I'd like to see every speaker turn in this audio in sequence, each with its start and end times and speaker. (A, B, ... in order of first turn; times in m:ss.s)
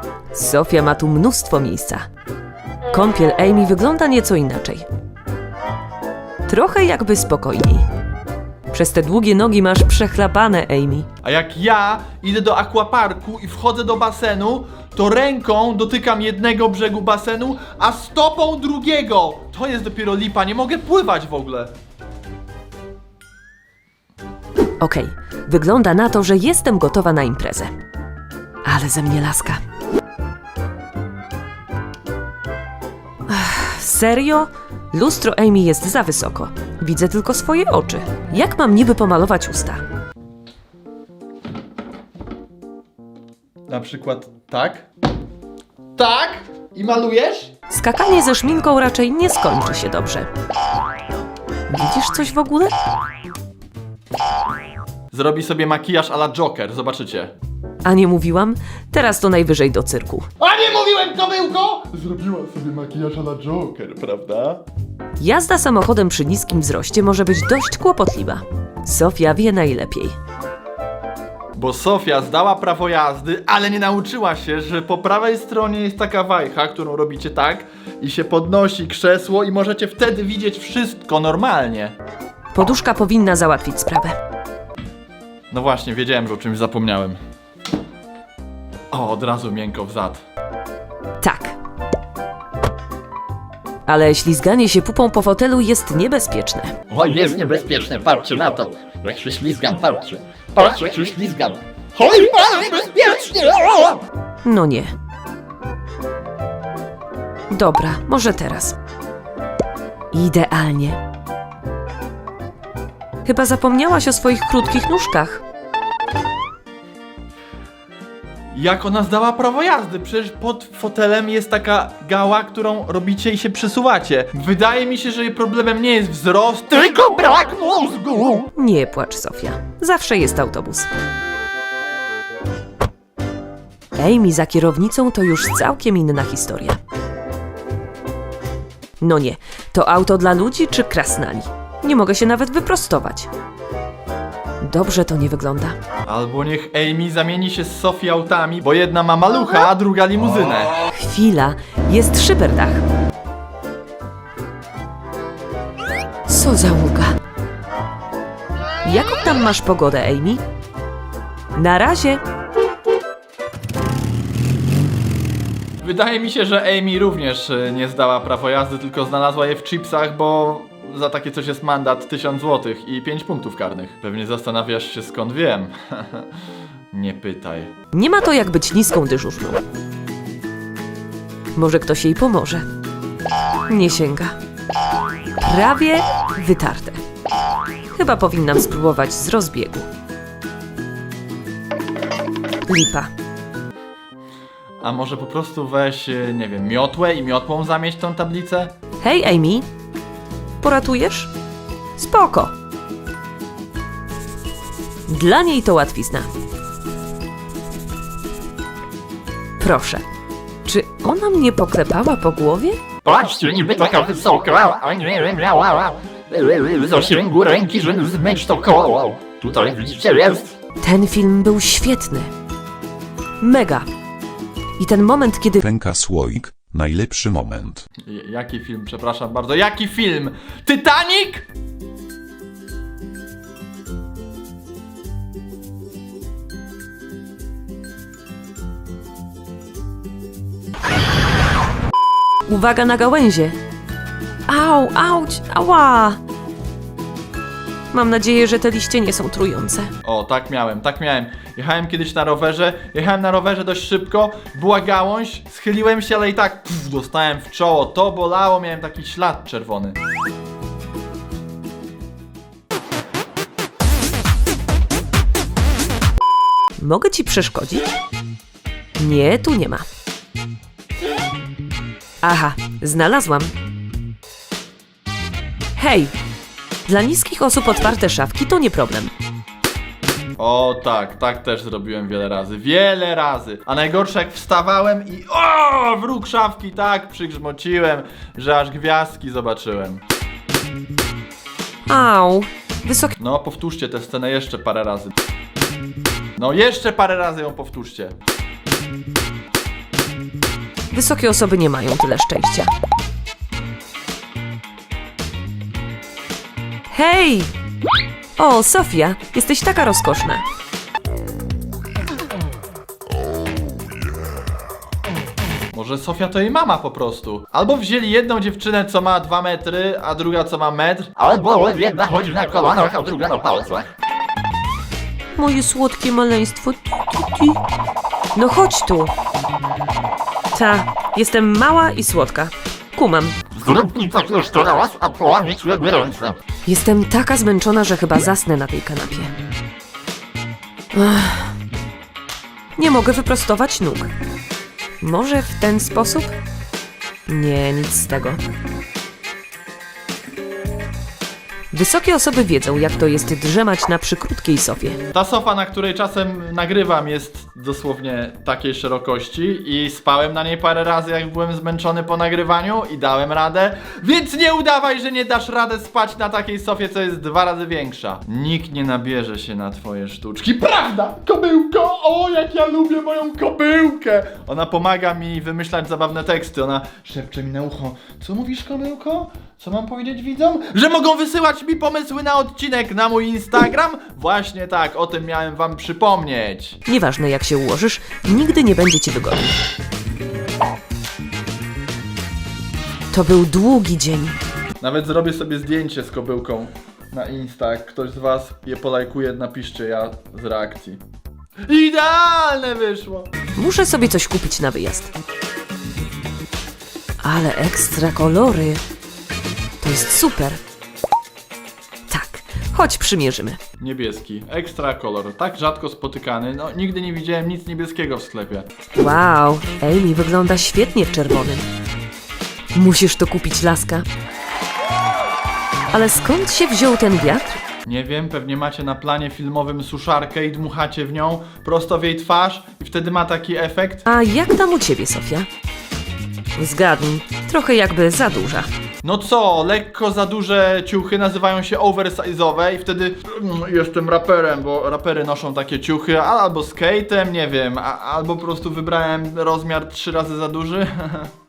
0:00.3-0:02.0 A
0:02.9-0:04.9 A
0:06.5-0:07.8 A
0:08.7-0:11.1 A
0:11.2-0:21.7 B
0:24.8-0:27.7 A
0:28.7-0:29.6 A
0:33.3-0:39.8 A
0:43.7-0:44.9 B
0:46.0-0:47.5 B
0:47.7-0:50.3 A
0:51.7-0:52.8 A
0:55.1-0:57.3 B
0:57.8-1:00.3 A
1:00.4-1:04.6 B
1:05.2-1:10.2 A
1:11.6-1:21.9 B
1:22.5-1:24.2 A
1:25.5-1:27.2 B
1:28.9-1:30.2 B
1:31.2-1:31.6 A
1:33.9-1:36.7 A
1:36.9-1:44.0 C
1:44.4-1:44.9 A
1:47.5-1:48.8 A
1:50.1-1:51.0 A
1:53.2-1:55.4 A
1:58.5-2:07.0 B
2:06.9-2:08.4 C
2:08.6-2:10.9 A
2:14.0-2:16.8 A
2:19.0-2:23.3 A
2:24.6-2:25.8 A
2:26.1-2:30.8 B
2:30.9-2:32.8 A
2:36.3-2:37.2 A
2:38.8-2:40.4 A
2:41.6-2:42.2 A
2:45.8-2:56.3 B
2:56.9-2:57.7 B
2:57.9-2:59.6 A
3:01.6-3:02.6 A
3:03.7-3:04.3 A
3:05.4-3:07.0 A
3:08.0-3:09.8 A
3:12.7-3:13.1 A
3:14.8-3:18.7 B
3:19.0-3:19.7 A
3:20.6-3:21.3 A
3:22.0-3:22.5 A
3:25.1-3:26.3 A
3:29.6-3:30.0 A
3:30.7-3:32.8 A
3:33.0-3:40.5 C
3:40.8-3:42.3 A
3:43.4-3:43.9 A
3:44.8-3:45.6 A
3:45.6-3:47.8 D
3:48.0-3:51.4 B
4:02.5-4:03.6 A
4:04.5-4:06.2 A
4:07.9-4:09.9 A
4:10.0-4:20.0 B
4:26.8-4:27.9 A
4:29.0-4:29.8 A
4:32.2-4:33.5 A
4:35.8-4:36.1 A
4:36.9-4:39.1 A
4:40.4-4:50.0 B
4:51.9-4:53.2 A
4:53.2-4:55.1 B
4:56.4-4:58.2 B
5:00.9-5:02.7 A
5:06.9-5:07.5 A
5:08.4-5:10.4 A
5:15.7-5:21.1 B
5:21.2-5:23.9 C
5:25.4-5:27.6 A
5:28.4-5:29.1 A
5:30.5-5:33.4 A
5:33.5-5:36.4 C
5:36.7-5:39.3 A
5:40.9-5:41.6 A
5:42.8-5:44.1 A
5:45.0-5:46.3 A
5:47.3-5:48.4 A
5:51.7-5:55.0 A
5:55.1-6:26.8 B
6:26.9-6:29.6 A
6:33.1-6:34.4 A
6:34.8-6:41.0 B
6:41.7-6:43.3 B
6:43.6-6:45.1 A
6:47.2-6:48.8 A
6:49.8-6:50.6 A
6:52.1-6:53.6 A
6:53.8-6:58.7 B
6:59.0-7:01.7 A
7:02.8-7:04.1 A
7:05.9-7:07.6 A
7:07.8-7:14.1 B
7:14.1-7:15.5 A
7:16.6-7:18.7 A
7:19.0-7:31.3 B